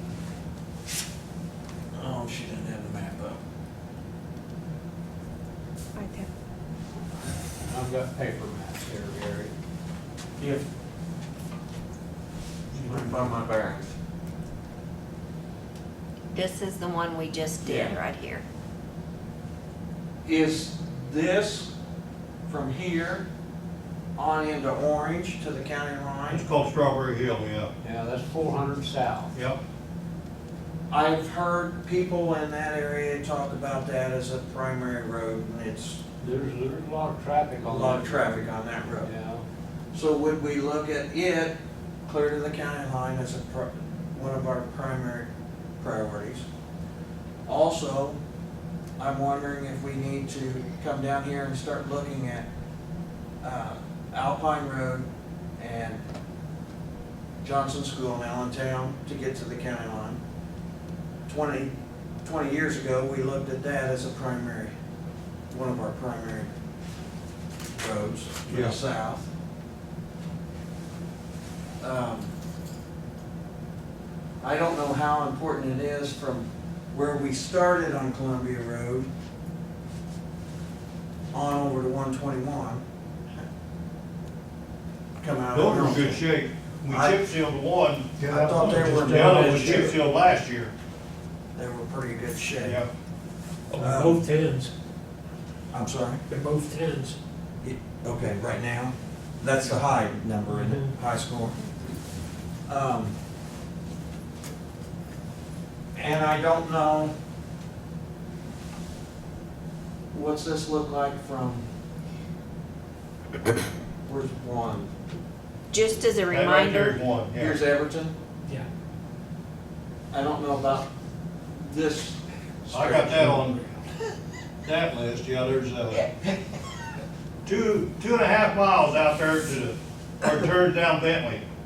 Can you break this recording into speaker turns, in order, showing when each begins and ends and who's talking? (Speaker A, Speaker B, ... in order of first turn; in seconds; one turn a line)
Speaker A: 1.9-3.4
Speaker B: 6.0-6.3
Speaker C: 7.6-9.5
Speaker A: 12.7-13.9
Speaker B: 16.3-18.4
Speaker C: 17.6-17.9
Speaker A: 20.2-21.7
Speaker A: 22.4-23.3
Speaker A: 24.1-26.4
Speaker D: 26.3-27.7
Speaker C: 27.8-29.3
Speaker D: 29.3-29.6
Speaker A: 30.9-36.0
Speaker C: 36.2-38.4
Speaker A: 37.6-39.1
Speaker C: 39.0-39.4
Speaker A: 39.9-46.4
Speaker A: 47.5-48.2
Speaker A: 49.0-52.5
Speaker A: 53.4-56.0
Speaker A: 57.4-60.2
Speaker A: 61.3-64.7
Speaker A: 65.5-66.5
Speaker A: 67.8-69.3
Speaker D: 68.5-68.8
Speaker A: 71.8-72.3
Speaker A: 74.4-79.1
Speaker A: 81.3-83.4
Speaker A: 85.2-86.2
Speaker D: 85.5-90.7
Speaker A: 86.9-87.2
Speaker A: 88.2-89.9
Speaker E: 88.6-89.8
Speaker A: 91.5-92.8
Speaker D: 92.6-92.9
Speaker E: 93.7-94.7
Speaker A: 93.8-94.2
Speaker A: 95.7-96.2
Speaker E: 96.3-97.2
Speaker A: 97.6-101.6
Speaker E: 100.5-100.9
Speaker A: 102.7-103.2
Speaker A: 106.0-107.1
Speaker A: 110.1-111.7
Speaker A: 114.0-114.9
Speaker B: 115.7-117.0
Speaker D: 116.3-117.6
Speaker A: 117.3-118.2
Speaker A: 120.1-120.9
Speaker A: 121.5-123.5
Speaker D: 122.7-123.6
Speaker D: 124.6-126.1
Speaker D: 127.4-131.4